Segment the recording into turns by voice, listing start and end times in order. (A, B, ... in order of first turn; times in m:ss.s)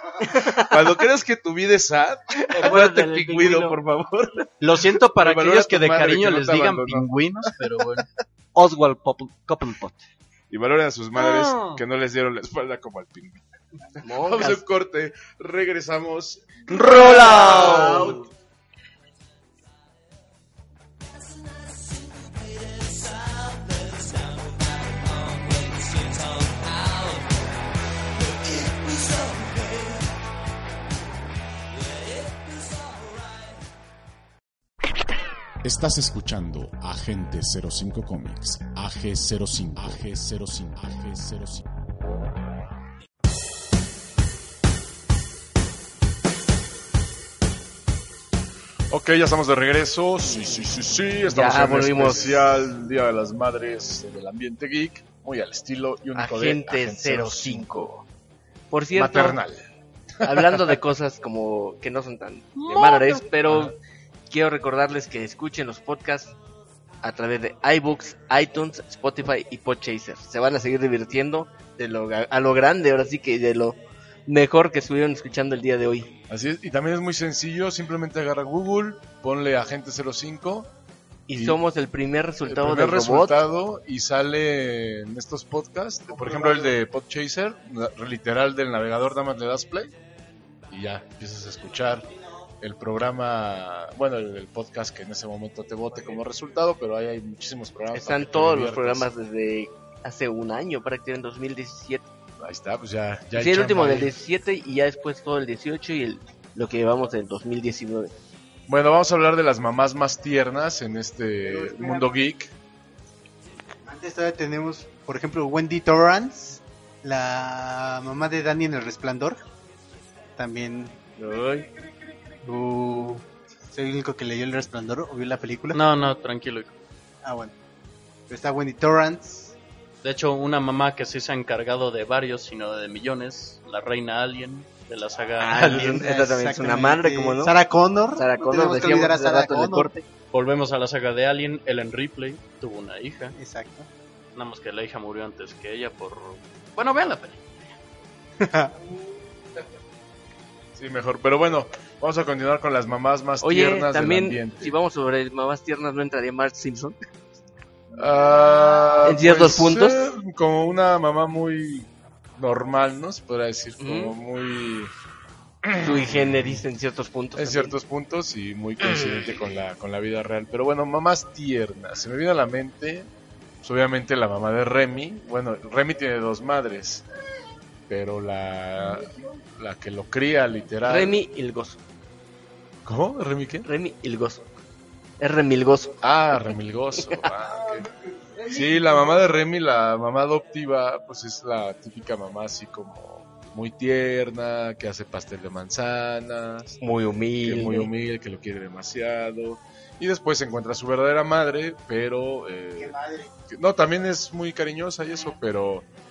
0:00.2-0:00.7 A
0:00.6-0:04.5 B
0:02.5-0:03.8 A
0:04.6-0:08.0 C
0:05.2-0:07.6 B
0:08.6-0:10.0 D
0:10.5-0:13.4 B
0:11.2-0:11.8 C
0:14.0-0:14.6 A
0:14.0-0:18.0 B
0:16.7-0:18.2 D
0:17.3-0:18.2 A
0:35.6-0:41.6 E
0:48.9-0:57.6 B
0:50.3-0:50.7 A
0:51.3-0:52.4 A
0:56.1-0:58.0 A
0:58.7-0:59.4 A
0:58.9-0:59.6 B
1:00.2-1:00.8 B
1:00.2-1:03.7 A
1:02.6-1:03.2 C
1:03.4-1:03.7 B
1:04.3-1:06.4 A
1:07.0-1:16.1 A
1:16.3-1:20.7 B
1:21.3-1:23.4 A
1:21.3-1:21.6 B
1:22.4-1:29.9 B
1:30.7-1:32.1 B
1:32.6-1:39.1 B
1:37.9-1:42.1 A
1:42.4-1:44.1 B
1:43.3-1:48.1 A
1:48.7-1:52.5 B
1:51.5-1:52.2 F
1:53.9-1:59.4 F
2:00.4-2:01.0 F
2:01.2-2:01.6 A
2:02.4-2:05.8 F
2:05.7-2:06.8 C
2:07.2-2:07.5 F
2:08.3-2:09.6 F
2:10.0-2:15.9 C
2:15.4-2:17.6 A
2:15.5-2:20.0 F
2:18.2-2:20.0 A
2:20.3-2:23.3 C
2:23.3-2:23.9 F
2:24.3-2:27.6 C
2:28.4-2:28.7 F
2:30.7-2:34.7 B
2:33.4-2:37.0 A
2:37.9-2:44.9 B
2:39.0-2:40.0 A
2:43.8-2:44.1 A
2:45.6-2:46.6 B
2:45.8-2:47.8 A
2:47.4-2:53.1 B
2:53.6-2:57.0 B
2:57.9-3:01.2 B
3:00.8-3:01.8 A
3:02.8-3:03.7 B
3:03.6-3:04.4 A
3:05.2-3:06.3 A
3:06.0-3:07.9 B
3:07.0-3:07.2 A
3:08.4-3:16.8 B
3:16.8-3:17.9 A
3:17.4-3:22.9 B
3:22.8-3:23.3 F
3:23.5-3:25.9 B